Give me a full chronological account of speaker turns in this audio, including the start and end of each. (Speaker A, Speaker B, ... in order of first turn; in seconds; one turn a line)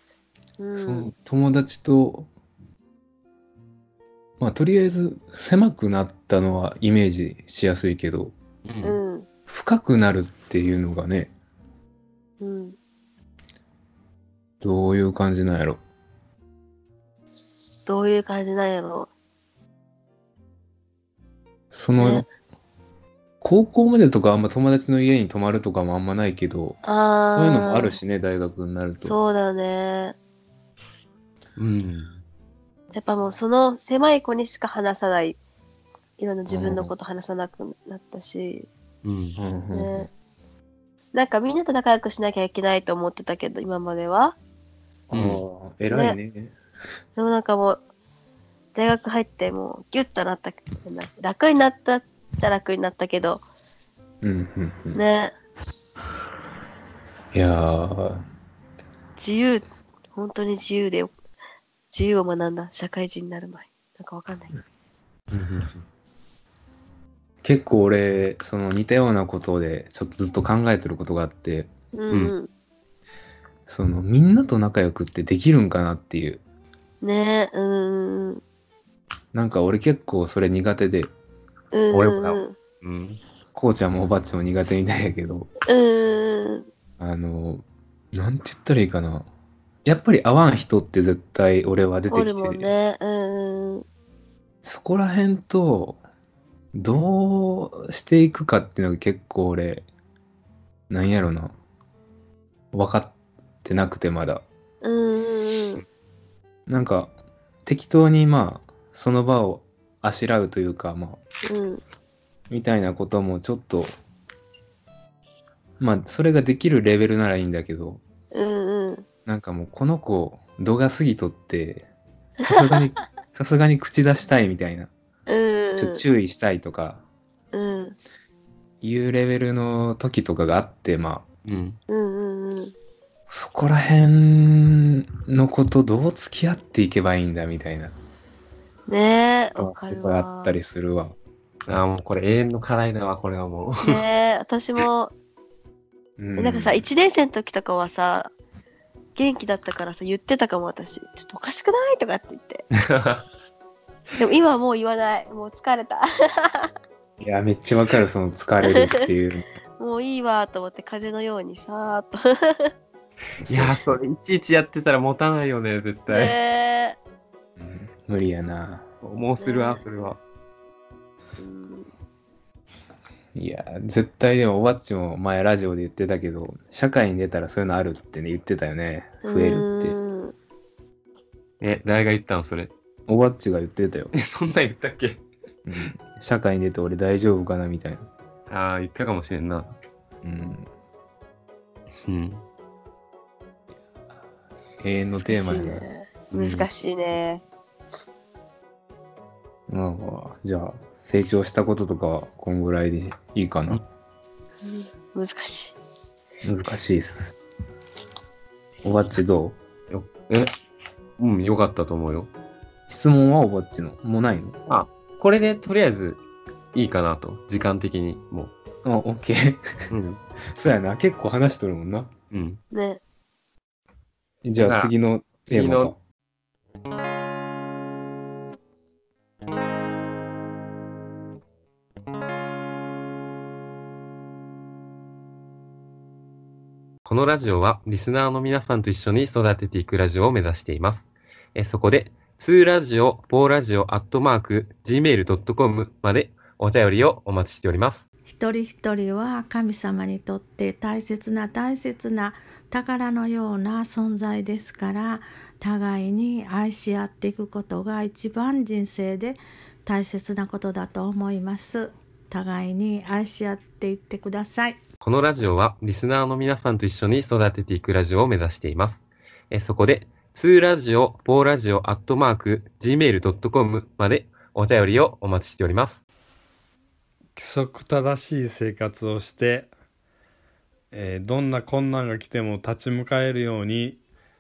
Speaker A: 0.6-1.1
Speaker B: 0.8-2.3
Speaker B: 4.4-8.3
Speaker C: 8.7-9.0
Speaker A: 8.8-9.3
Speaker B: 9.5-11.3
Speaker A: 12.4-12.8
Speaker B: 14.6-15.8
Speaker A: 17.9-19.1
Speaker B: 21.7-22.3
Speaker A: 22.0-22.3
Speaker B: 23.4-26.8
Speaker A: 26.9-28.0
Speaker B: 27.3-29.2
Speaker A: 29.0-30.2
Speaker C: 31.6-32.2
Speaker A: 32.9-35.4
Speaker A: 36.2-38.7
Speaker B: 36.5-36.9
Speaker C: 39.0-39.4
Speaker B: 39.4-40.1
Speaker A: 39.7-40.1
Speaker A: 41.1-44.4
Speaker B: 45.1-46.5
Speaker C: 45.1-45.4
Speaker A: 45.9-46.2
Speaker A: 47.2-47.8
Speaker A: 48.7-53.5
Speaker B: 54.2-55.0
Speaker A: 54.9-55.4
Speaker B: 57.3-58.2
Speaker A: 59.2-61.1
Speaker A: 61.9-64.6
Speaker C: 65.3-65.8
Speaker B: 67.4-71.7
Speaker A: 71.9-72.5
Speaker B: 73.7-76.4
Speaker A: 77.0-78.4
Speaker B: 79.3-81.1
Speaker A: 81.7-82.6
Speaker C: 81.9-83.2
Speaker B: 83.5-85.5
Speaker A: 85.7-86.7
Speaker B: 87.0-89.3
Speaker B: 89.8-92.7
Speaker A: 92.1-93.8
Speaker B: 94.6-96.0
Speaker B: 96.7-99.9
Speaker B: 100.9-101.5
Speaker B: 102.7-104.5
Speaker A: 104.8-105.8
Speaker B: 106.7-107.1
Speaker B: 107.7-111.2
Speaker A: 111.5-111.8
Speaker B: 112.5-113.9
Speaker B: 115.8-118.0
Speaker A: 118.3-119.0
Speaker B: 119.3-121.9
Speaker A: 122.5-122.7
Speaker B: 122.5-124.9
Speaker A: 125.3-126.0
Speaker B: 125.8-127.0
Speaker A: 127.5-128.0
Speaker B: 128.8-131.3
Speaker C: 131.4-131.8
Speaker A: 131.9-132.7
Speaker B: 133.3-138.0
Speaker A: 138.9-140.5
Speaker B: 139.6-141.2
Speaker C: 141.7-144.0
Speaker A: 143.8-145.1
Speaker B: 146.2-146.8
Speaker A: 146.4-148.3
Speaker A: 149.2-152.6
Speaker C: 152.9-153.3
Speaker A: 154.2-156.7
Speaker B: 157.2-159.5
Speaker A: 158.7-159.0
Speaker A: 159.8-162.7
Speaker B: 163.4-163.8
Speaker C: 163.5-166.4
Speaker A: 166.1-167.0
Speaker B: 167.6-168.8
Speaker C: 169.0-170.2
Speaker A: 169.4-169.8
Speaker A: 171.4-171.9
Speaker B: 173.3-180.0
Speaker A: 179.2-180.3
Speaker C: 181.6-182.7
Speaker B: 183.1-184.1
Speaker C: 184.1-185.2
Speaker B: 185.7-188.1
Speaker C: 188.5-189.7
Speaker B: 190.2-190.7
Speaker C: 192.1-192.4
Speaker B: 194.8-195.8
Speaker A: 195.2-197.4
Speaker C: 196.3-196.7
Speaker B: 199.7-203.8
Speaker A: 204.6-205.8
Speaker B: 206.4-207.3
Speaker B: 208.8-209.6
Speaker C: 209.9-210.5
Speaker C: 211.2-212.3
Speaker B: 212.9-214.6
Speaker C: 214.7-216.2
Speaker C: 216.8-218.5
Speaker B: 218.8-219.6
Speaker C: 219.9-220.2
Speaker B: 220.6-222.1
Speaker C: 222.3-222.6
Speaker A: 222.7-223.0
Speaker B: 224.4-226.0
Speaker C: 224.6-224.9
Speaker C: 225.4-225.9
Speaker C: 237.0-248.1
Speaker D: 248.3-264.8
Speaker C: 265.0-276.0
Speaker E: 277.4-279.7
Speaker E: 280.9-284.0